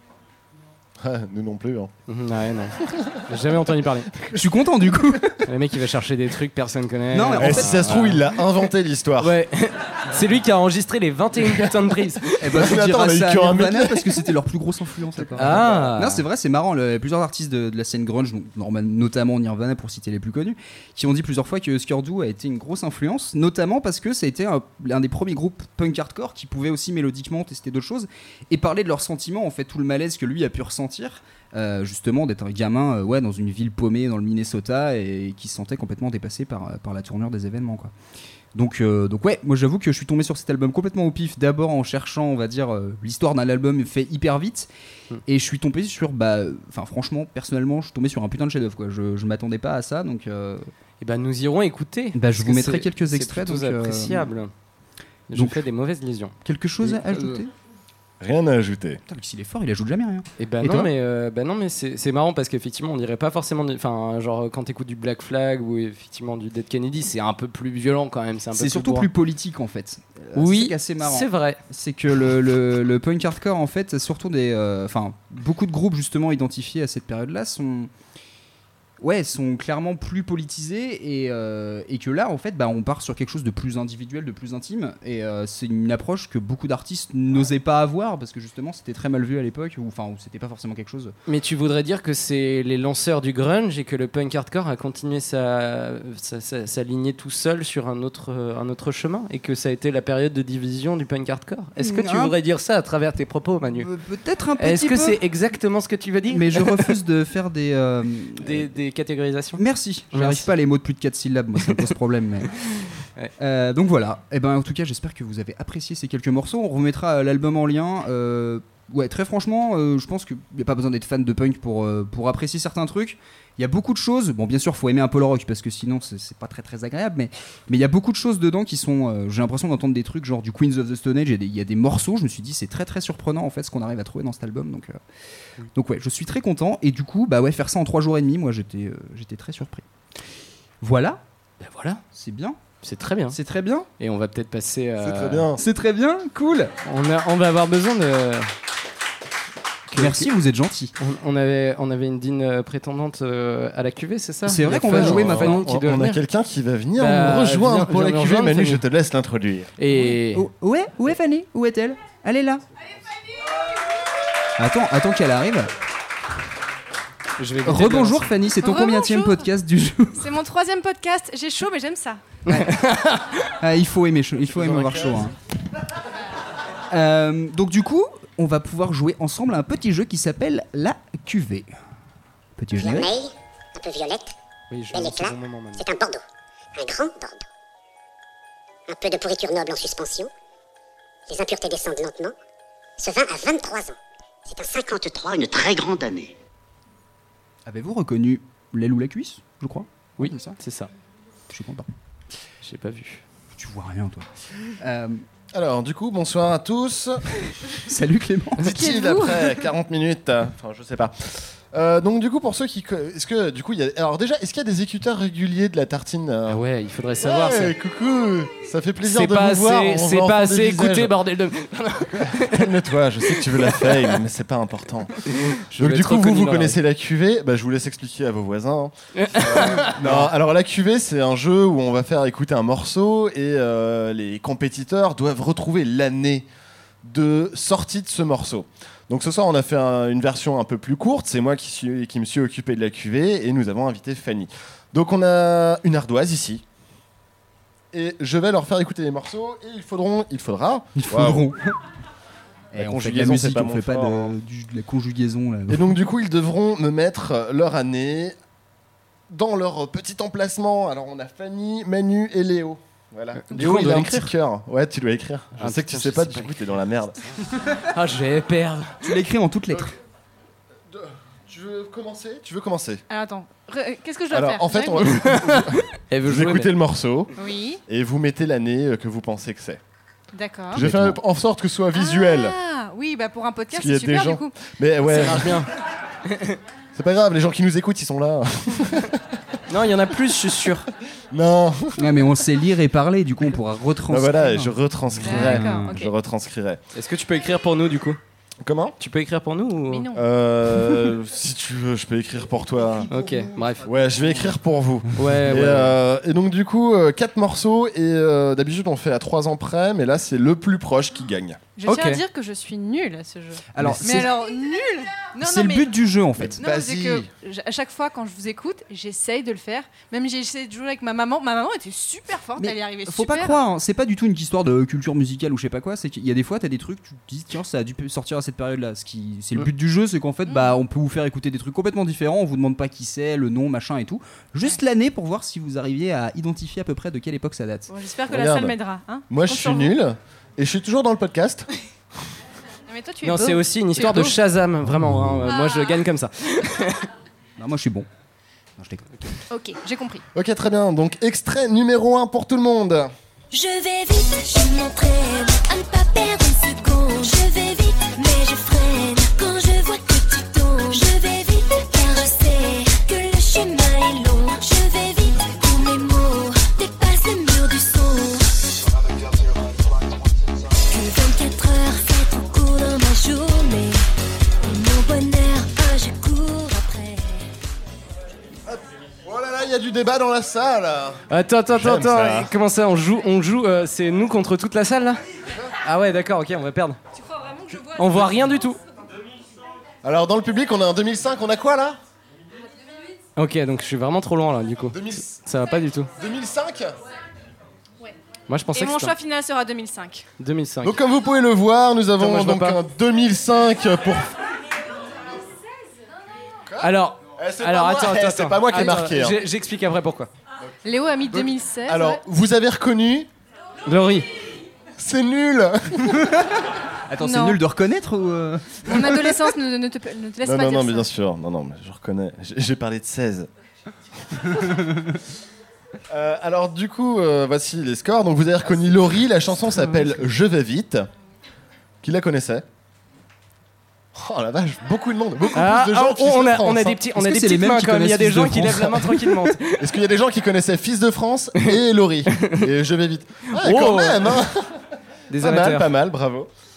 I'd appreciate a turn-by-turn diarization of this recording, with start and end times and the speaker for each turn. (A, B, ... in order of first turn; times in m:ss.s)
0:01.0-0:01.9 A
0:02.1-0:04.1 B
0:04.3-0:05.4 C
0:05.4-0:08.2 B
0:07.1-0:08.0 C
0:07.4-0:09.3 A
0:09.2-0:12.6 B
0:11.4-0:11.8 A
0:12.4-0:37.9 C
0:12.5-0:14.2 A
0:15.4-0:15.8 A
0:15.4-0:16.2 B
0:38.5-0:44.7 C
0:45.2-0:50.7 C
0:51.0-0:54.5 B
0:52.1-0:54.3 C
0:55.3-0:57.4 B
0:55.3-0:55.6 C
0:56.4-0:57.5 C
0:58.2-0:59.0 A
0:59.1-1:00.9 C
1:00.4-1:09.1 B
1:08.5-1:17.9 C
1:10.3-1:11.6 B
1:19.0-1:31.1 C
1:31.3-1:43.9 B
1:41.8-1:42.3 C
1:43.7-1:45.2 C
1:44.6-1:46.9 B
1:46.3-1:48.7 C
1:48.4-1:50.5 B
1:49.6-2:15.0 C
1:52.9-1:53.3 B
2:15.7-2:19.8 C
2:20.8-2:21.2 C
2:21.6-2:22.0 B
2:22.1-2:22.6 C
2:22.8-2:23.4 B
2:23.3-2:23.9 C
2:24.0-2:25.5 B
2:25.0-2:25.6 A
2:25.6-2:26.7 C
2:26.8-2:28.5 B
2:29.9-2:30.3 B
2:29.9-2:30.9 C
2:31.0-2:36.2 B
2:34.4-2:35.6 C
2:34.7-2:39.7 A
2:37.0-2:38.8 B
2:39.8-2:40.4 B
2:39.9-2:42.6 C
2:44.6-2:45.7 C
2:47.4-2:48.3 B
2:47.6-2:50.3 C
2:48.6-2:49.5 D
2:50.2-2:52.2 D
2:52.4-2:53.5 B
2:52.5-2:52.8 C
2:53.6-2:55.3 C
2:54.4-2:55.2 B
2:56.9-3:01.7 C
3:02.6-3:03.1 C
3:02.8-3:04.3 E
3:04.7-3:05.8 B
3:04.9-3:06.2 E
3:06.8-3:07.4 E
3:08.9-3:10.3 E
3:11.3-3:12.3 E
3:13.0-3:13.9 E
3:14.5-3:15.4 E
3:17.6-3:20.6 C
3:20.2-3:20.9 B
3:21.5-3:21.9 C
3:22.6-3:23.2 B
3:23.6-3:25.2 C
3:25.5-3:27.3 A
3:27.8-3:28.8 C
3:28.6-3:36.6 A
3:28.8-3:29.6 D
3:36.5-3:37.7 B
3:37.2-3:41.1 A
3:39.0-3:42.7 B
3:42.4-3:45.2 A
3:43.2-3:43.9 B
3:45.2-3:46.8 B
3:45.7-3:56.4 A
3:49.1-3:50.0 B
3:49.9-3:50.3 C
3:57.0-4:06.6 A
4:07.9-4:11.4 A
4:10.9-4:11.8 C
4:12.7-4:14.3 A
4:12.7-4:16.0 C
4:15.7-4:18.3 A
4:19.3-4:27.2 A
4:23.3-4:24.3 B
4:25.6-4:26.5 B
4:27.8-4:28.9 B
4:29.0-4:30.0 C
4:30.9-4:33.0 A
4:33.1-4:35.1 D
4:34.3-4:37.3 A
4:35.0-4:36.7 B
4:37.4-4:37.8 D
4:37.9-4:39.8 A
4:40.3-4:40.9 D
4:40.7-4:42.6 A
4:40.8-4:41.2 C
4:41.9-4:44.5 D
4:43.7-4:45.6 A
4:45.0-4:45.7 B
4:46.3-4:46.6 B
4:46.9-4:49.2 A
4:49.7-4:50.8 B
4:51.3-4:52.0 A
4:52.0-4:56.0 C
4:54.1-4:56.8 A
4:55.2-4:56.1 D
4:56.9-4:58.2 B
4:58.6-4:58.9 A
4:59.0-5:00.1 B
4:59.9-5:00.2 D
5:00.1-5:03.1 A
5:03.1-5:03.8 B
5:03.8-5:11.6 A
5:05.2-5:06.0 B
5:11.8-5:15.9 D
5:11.8-5:12.2 B
5:13.7-5:14.3 C
5:15.4-5:16.6 C
5:16.4-5:17.3 A
5:16.6-5:23.6 D
5:22.6-5:37.9 C
5:30.4-5:30.8 D
5:37.9-5:40.0 D
5:38.3-5:41.7 A
5:42.9-5:44.4 D
5:43.2-5:47.0 B
5:45.4-5:46.0 D
5:47.6-5:48.1 C
5:48.8-5:49.3 C
5:49.5-5:50.2 D
5:50.3-5:53.1 A
5:53.5-6:08.5 F
6:10.9-6:14.0 F
6:14.6-6:17.4 F
6:18.7-6:22.5 A
6:21.3-6:25.2 B
6:25.8-6:27.0 B
6:27.3-6:28.1 D
6:27.9-6:28.8 B
6:30.0-6:32.0 A
6:33.4-6:36.1 B
6:34.9-6:35.4 A
6:36.2-6:37.0 A
6:38.5-6:39.1 B
6:38.7-6:40.2 D
6:40.4-6:40.9 B
6:40.8-6:44.3 A
6:42.2-6:42.8 B
6:46.7-6:49.4 A
6:46.8-6:50.3 B
6:50.8-6:52.2 D
6:51.2-6:53.3 A
6:53.8-6:54.3 B
6:55.0-6:56.4 A
6:57.1-6:59.3 C
6:57.2-6:57.6 D
6:58.9-7:01.1 D
7:00.4-7:03.5 A
7:06.1-7:11.1 A
7:09.7-7:10.2 C
7:12.0-7:12.6 A
7:14.2-7:17.0 A
7:15.5-7:19.8 B
7:17.2-7:19.5 C
7:19.8-7:24.8 A
7:23.5-7:24.4 B
7:25.3-7:25.9 B
7:25.4-7:26.5 A